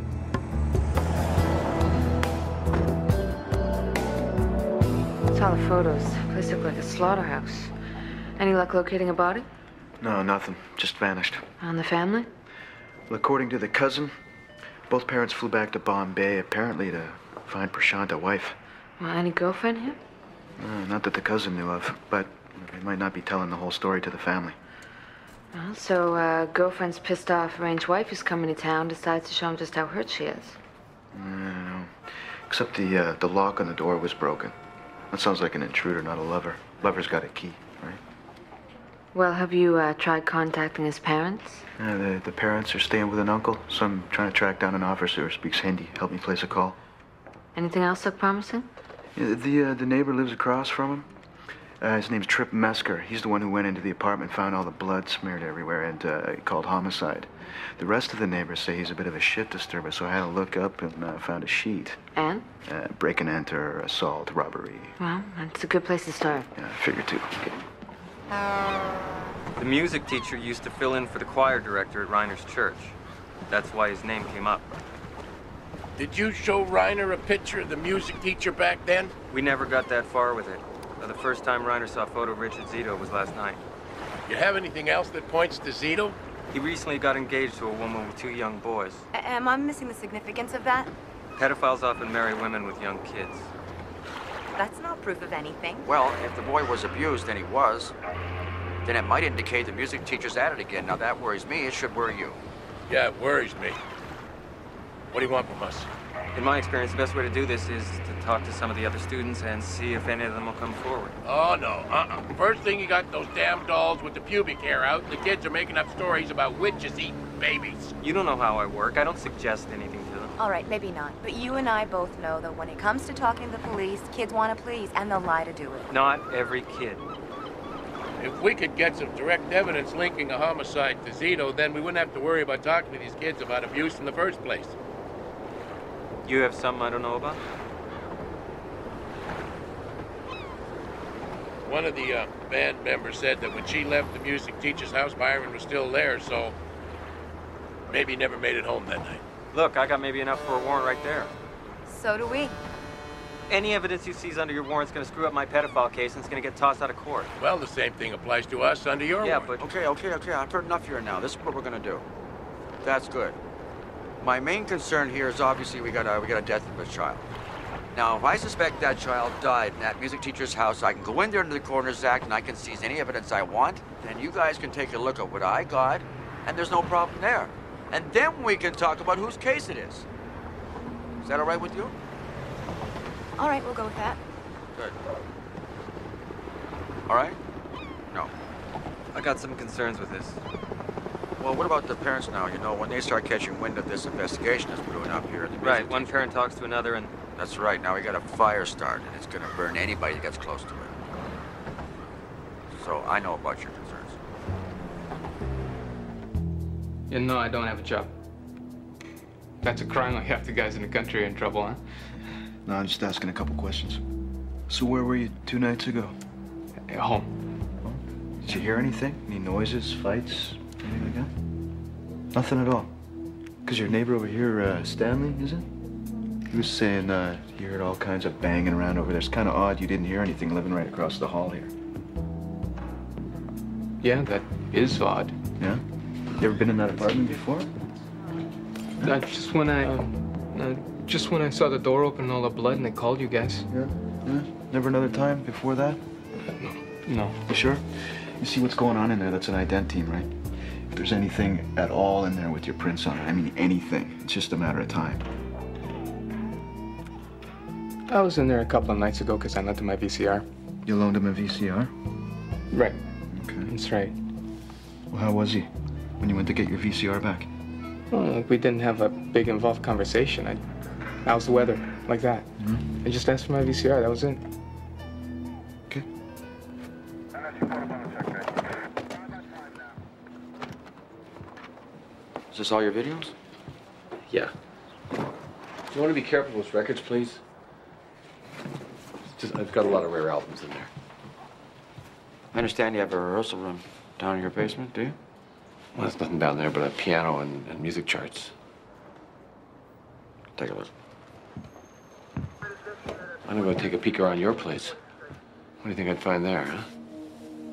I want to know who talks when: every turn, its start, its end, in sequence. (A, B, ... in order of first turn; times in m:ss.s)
0:05.3-0:07.7 A
0:08.4-0:09.4 A
0:10.0-0:11.5 B
0:11.6-0:12.3 A
0:13.1-0:14.1 B
0:14.9-0:18.6 B
0:19.0-0:20.0 A
0:20.6-0:24.6 B
0:25.5-0:30.6 A
0:31.1-0:34.6 B
0:35.1-0:38.0 B
0:39.1-0:41.7 A
0:41.8-0:46.8 B
0:47.6-0:48.7 A
0:49.2-0:51.1 B
0:51.8-1:02.0 B
1:02.2-1:02.5 A
1:02.6-1:05.0 B
1:05.0-1:06.5 A
1:06.6-1:07.5 B
1:09.6-1:13.0 C
1:13.5-1:14.7 C
1:16.0-1:19.1 D
1:19.3-1:23.6 C
1:24.3-1:26.2 D
1:26.5-1:29.0 C
1:29.1-1:30.9 E
1:31.4-1:33.5 C
1:34.6-1:35.9 E
1:35.8-1:37.9 F
1:38.8-1:42.4 F
1:42.9-1:43.8 D
1:45.1-1:45.9 D
1:46.3-1:51.2 C
1:51.2-1:57.9 D
1:58.0-2:00.3 C
2:00.4-2:05.9 E
2:05.9-2:07.1 C
2:08.2-2:14.8 D
2:16.2-2:17.4 C
2:21.6-2:26.5 D
2:27.9-2:29.2 D
2:29.5-2:31.3 C
2:31.9-2:32.5 E
2:33.5-2:37.3 C
2:37.4-2:39.5 D
2:39.2-2:39.6 C
2:39.6-2:42.0 F
2:42.8-2:43.4 F
2:44.2-2:47.3 F
2:47.9-3:00.1 F
3:01.2-3:01.9 F
3:03.4-3:04.2 E
3:07.1-3:07.4 F
3:09.1-3:10.4 C
3:11.4-3:16.1 F
3:15.6-3:17.1 C
3:17.4-3:20.9 F
3:22.7-3:24.2 F
3:27.1-3:28.1 G
3:29.6-3:31.8 G
3:32.6-3:34.0 B
3:34.7-3:36.1 B
3:36.8-3:37.3 G
3:37.8-3:41.3 B
3:42.3-3:42.9 B
3:43.6-3:45.7 B
3:46.5-3:51.7 B
3:54.0-3:55.4 G
3:55.6-3:57.7 B
3:59.0-4:03.7 G
4:03.7-4:06.0 B
4:07.1-4:07.4 G
4:07.5-4:15.2 B
4:18.1-4:20.4 G
4:20.8-4:21.9 B
4:22.7-4:23.0 G
4:23.3-4:23.7 B
4:23.7-4:24.1 G
4:25.1-4:27.5 B
4:28.1-4:30.6 G
4:31.2-4:34.4 G
4:32.6-4:32.8 B
4:42.5-4:43.3 F
4:45.9-4:47.4 H
4:49.3-4:50.9 H
4:52.5-4:55.2 F
4:56.0-4:58.5 H
5:00.6-5:00.9 F
5:03.4-5:05.0 H
5:05.8-5:06.9 H